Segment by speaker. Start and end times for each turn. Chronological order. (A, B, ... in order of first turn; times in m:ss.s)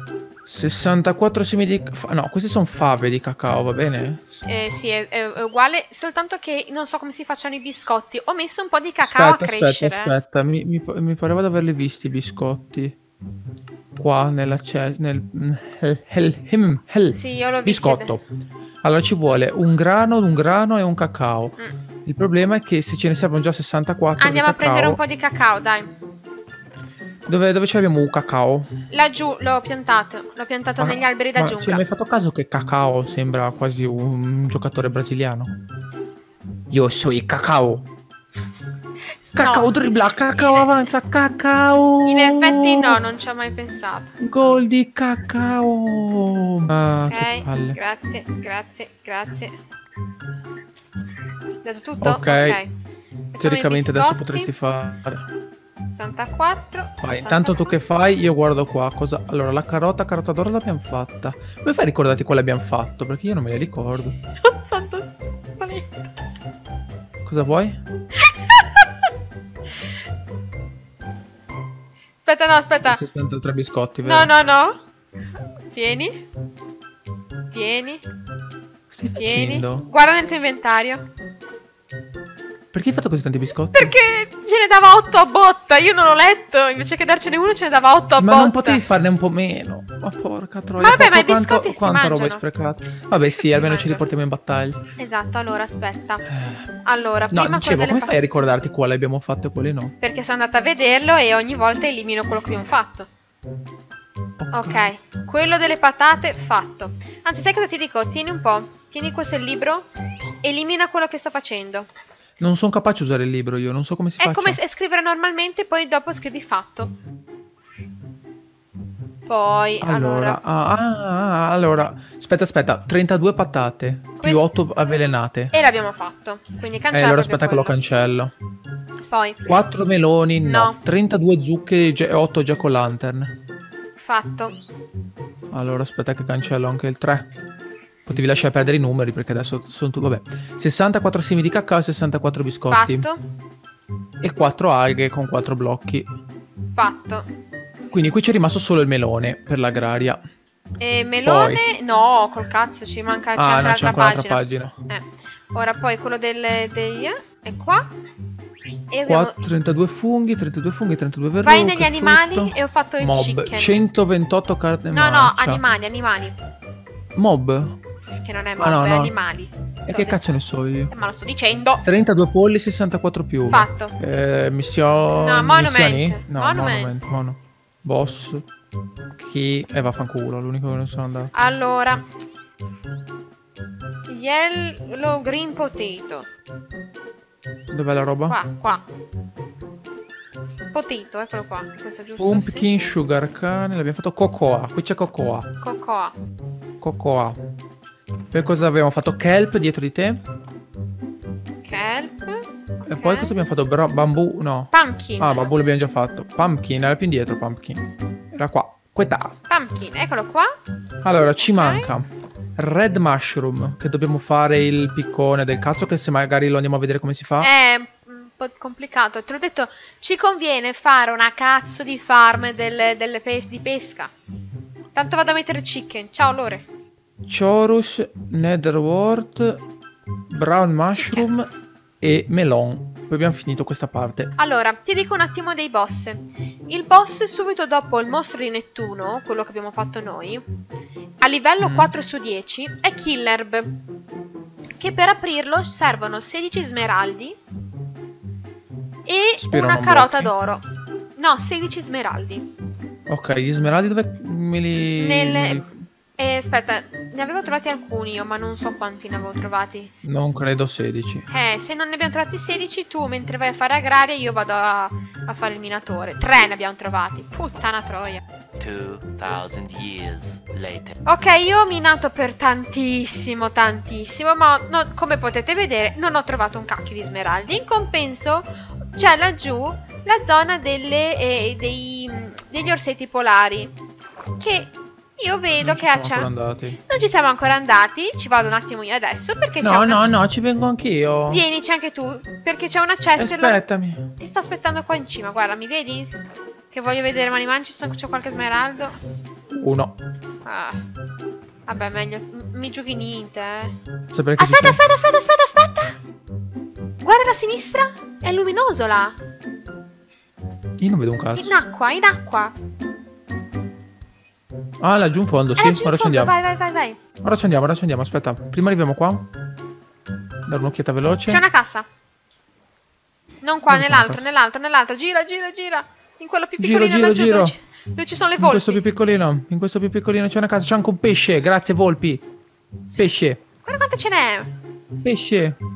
0:00.5-0:04.4 A
0:04.4-0:10.2 B
0:09.0-0:13.0 A
0:14.0-0:18.2 A
0:17.1-0:18.1 B
0:18.8-0:25.0 A
0:24.2-0:25.9 B
0:27.3-0:28.7 A
0:28.9-0:31.8 B
0:30.8-0:35.5 A
0:36.7-0:37.9 A
0:39.3-0:39.7 B
0:39.4-0:43.0 A
0:40.3-0:40.7 B
0:42.0-0:44.1 B
0:44.2-0:47.8 A
0:47.1-0:49.6 B
0:51.6-0:52.7 B
0:52.0-0:52.6 A
0:53.3-0:54.5 B
0:53.4-0:55.3 A
0:55.9-0:57.8 B
0:57.0-1:04.2 A
1:04.4-1:06.1 B
1:07.2-1:07.8 A
1:08.2-1:08.9 B
1:12.2-1:13.0 B
1:12.8-1:14.3 A
1:14.0-1:14.8 B
1:15.7-1:16.2 B
1:17.5-1:18.0 B
1:18.9-1:19.9 A
1:19.2-1:21.0 B
1:22.7-1:23.9 A
1:23.7-1:28.8 B
1:28.2-1:34.8 A
1:30.8-1:32.4 B
1:33.3-1:34.1 B
1:35.0-1:36.3 B
1:36.3-1:36.7 A
1:36.8-1:38.2 B
1:37.3-1:40.0 A
1:40.0-1:43.1 B
1:44.4-1:44.9 A
1:44.5-1:49.9 B
1:50.4-1:51.9 B
1:52.4-1:54.6 A
1:54.2-1:56.9 B
1:59.3-2:00.4 B
1:59.8-2:05.5 A
2:04.2-2:04.5 B
2:05.5-2:07.8 B
2:06.9-2:08.3 A
2:09.1-2:09.4 B
2:09.4-2:13.4 A
2:10.4-2:10.8 B
2:14.0-2:14.6 B
2:15.5-2:17.3 A
2:18.1-2:23.1 A
2:22.7-2:23.2 B
2:24.2-2:26.1 A
2:26.8-2:27.3 B
2:27.9-2:30.2 A
2:30.8-2:37.9 B
2:31.2-2:31.6 A
2:33.4-2:34.7 A
2:38.9-2:39.5 B
2:39.1-2:45.6 A
2:41.4-2:43.8 B
2:44.9-2:46.4 B
2:47.2-2:47.8 A
2:48.2-2:50.2 B
2:48.6-2:49.2 A
2:49.9-2:50.9 A
2:50.9-2:51.8 B
2:51.8-2:58.5 A
2:53.5-2:54.0 B
2:55.1-2:56.9 B
2:59.2-3:01.3 A
3:01.3-3:02.0 B
3:04.1-3:06.3 B
3:07.7-3:08.4 A
3:08.3-3:08.8 B
3:10.7-3:12.8 B
3:12.2-3:15.5 A
3:15.6-3:16.2 B
3:16.8-3:17.4 A
3:18.3-3:20.2 A
3:21.6-3:23.4 B
3:22.8-3:29.4 A
3:24.7-3:25.5 B
3:29.5-3:30.5 B
3:31.0-3:37.5 A
3:31.6-3:31.9 B
3:37.4-3:44.1 B
3:44.9-3:46.7 B
3:47.3-3:49.6 A
3:50.3-3:51.5 A
3:51.0-3:51.3 B
3:52.0-3:54.3 A
3:54.4-4:00.4 B
4:01.2-4:03.7 B
4:01.6-4:01.9 A
4:04.8-4:07.4 B
4:09.1-4:10.6 B
4:09.4-4:10.3 A
4:11.2-4:12.5 B
4:13.1-4:15.7 A
4:15.0-4:15.6 B
4:16.2-4:19.9 B
4:20.0-4:21.3 A
4:21.3-4:28.2 B
4:28.6-4:30.9 C
4:31.0-4:43.7 B
4:44.4-4:46.3 B
4:45.6-4:46.8 A
4:46.9-4:50.2 B
4:49.6-4:51.4 A
4:51.3-4:53.6 B
4:53.2-4:54.1 A
4:54.2-4:56.1 B
4:56.7-4:59.0 B
4:59.5-5:00.0 A
5:00.4-5:00.8 B
5:01.7-5:03.8 B
5:04.1-5:04.8 A
5:04.4-5:06.0 B
5:07.0-5:09.2 B
5:10.8-5:11.6 A
5:11.4-5:12.5 B
5:14.8-5:16.3 A
5:15.6-5:17.0 B
5:17.2-5:19.3 A
5:20.5-5:21.4 A
5:21.3-5:21.9 B
5:23.4-5:28.8 B
5:23.7-5:24.2 A
5:26.6-5:27.6 A
5:28.4-5:32.2 A
5:33.0-5:33.4 A
5:33.6-5:34.6 B
5:35.0-5:35.6 A